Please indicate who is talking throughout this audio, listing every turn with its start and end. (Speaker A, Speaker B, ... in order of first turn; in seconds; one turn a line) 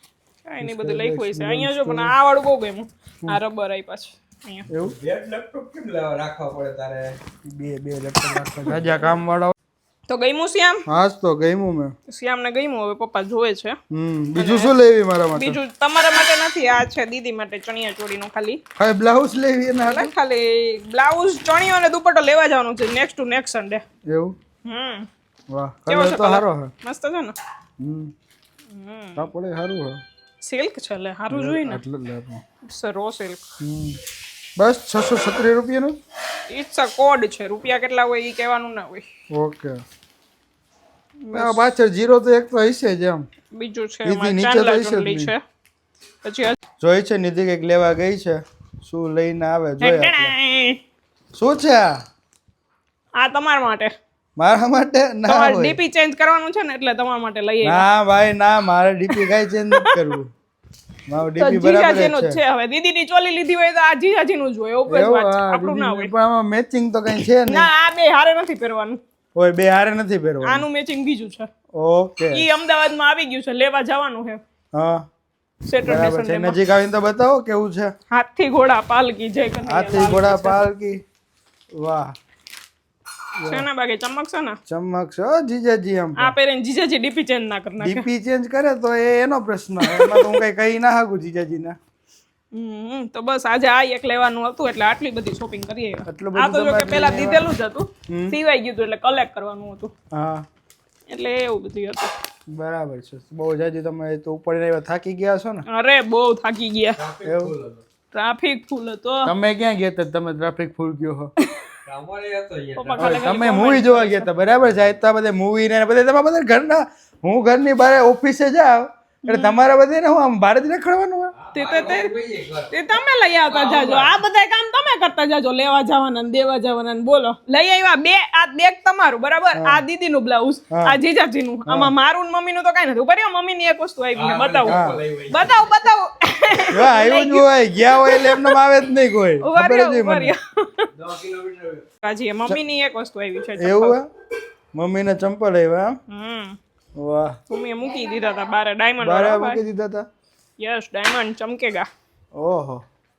Speaker A: 0.5-4.7
Speaker B: 0.6-2.1
Speaker B: 4.7-4.9
Speaker C: 4.8-7.2
Speaker B: 7.4-9.5
Speaker A: 10.1-10.8
Speaker B: 10.9-11.9
Speaker A: 12.1-13.8
Speaker B: 13.9-15.6
Speaker A: 14.3-14.7
Speaker A: 15.3-18.6
Speaker B: 18.8-20.1
Speaker A: 19.8-23.8
Speaker B: 24.1-24.3
Speaker A: 24.6-25.1
Speaker B: 25.5-26.7
Speaker A: 25.9-27.4
Speaker B: 27.8-28.1
Speaker A: 28.7-29.3
Speaker B: 29.1-30.0
Speaker A: 30.4-31.8
Speaker B: 31.3-32.4
Speaker A: 32.6-33.4
Speaker B: 33.6-34.0
Speaker B: 34.6-36.0
Speaker A: 36.5-39.0
Speaker B: 39.3-39.8
Speaker A: 41.2-41.6
Speaker B: 41.3-43.2
Speaker A: 43.5-45.4
Speaker B: 44.0-45.3
Speaker A: 46.2-46.6
Speaker B: 46.8-50.3
Speaker A: 49.8-50.8
Speaker B: 51.3-51.9
Speaker A: 53.2-53.9
Speaker B: 54.4-55.8
Speaker A: 55.2-57.8
Speaker B: 57.6-60.3
Speaker A: 59.1-60.1
Speaker B: 61.1-62.4
Speaker A: 61.3-66.1
Speaker B: 64.9-67.7
Speaker A: 67.5-69.0
Speaker B: 69.3-70.7
Speaker A: 70.4-71.5
Speaker B: 71.7-72.4
Speaker A: 72.3-74.4
Speaker B: 74.7-75.0
Speaker A: 75.7-76.6
Speaker B: 75.8-77.9
Speaker A: 78.1-80.6
Speaker B: 79.7-81.0
Speaker B: 81.8-82.1
Speaker B: 83.4-83.7
Speaker A: 83.4-84.6
Speaker B: 84.7-86.3
Speaker A: 86.2-88.0
Speaker B: 87.8-91.8
Speaker A: 89.8-90.4
Speaker A: 92.5-99.9
Speaker B: 96.1-97.4
Speaker B: 98.1-98.3
Speaker B: 100.1-100.5
Speaker A: 101.1-102.1
Speaker B: 102.5-105.6
Speaker A: 105.7-107.0
Speaker C: 107.0-107.8
Speaker B: 107.2-107.5
Speaker A: 108.1-109.3
Speaker B: 109.2-111.3
Speaker C: 111.8-113.4
Speaker A: 112.8-114.3
Speaker B: 113.0-121.3
Speaker A: 119.3-119.6
Speaker C: 121.4-122.8
Speaker A: 121.5-122.1
Speaker A: 122.7-138.6
Speaker C: 123.5-124.2
Speaker B: 129.6-129.8
Speaker B: 130.7-131.0
Speaker B: 131.7-131.9
Speaker C: 134.2-135.7
Speaker B: 134.7-135.0
Speaker B: 136.7-140.3
Speaker A: 139.4-140.9
Speaker C: 140.9-141.8
Speaker A: 142.0-144.0
Speaker B: 143.6-144.1
Speaker B: 144.7-145.9
Speaker A: 146.1-146.6
Speaker B: 147.0-147.3
Speaker A: 147.5-149.6
Speaker B: 149.0-150.1
Speaker A: 150.6-151.9
Speaker B: 152.3-152.8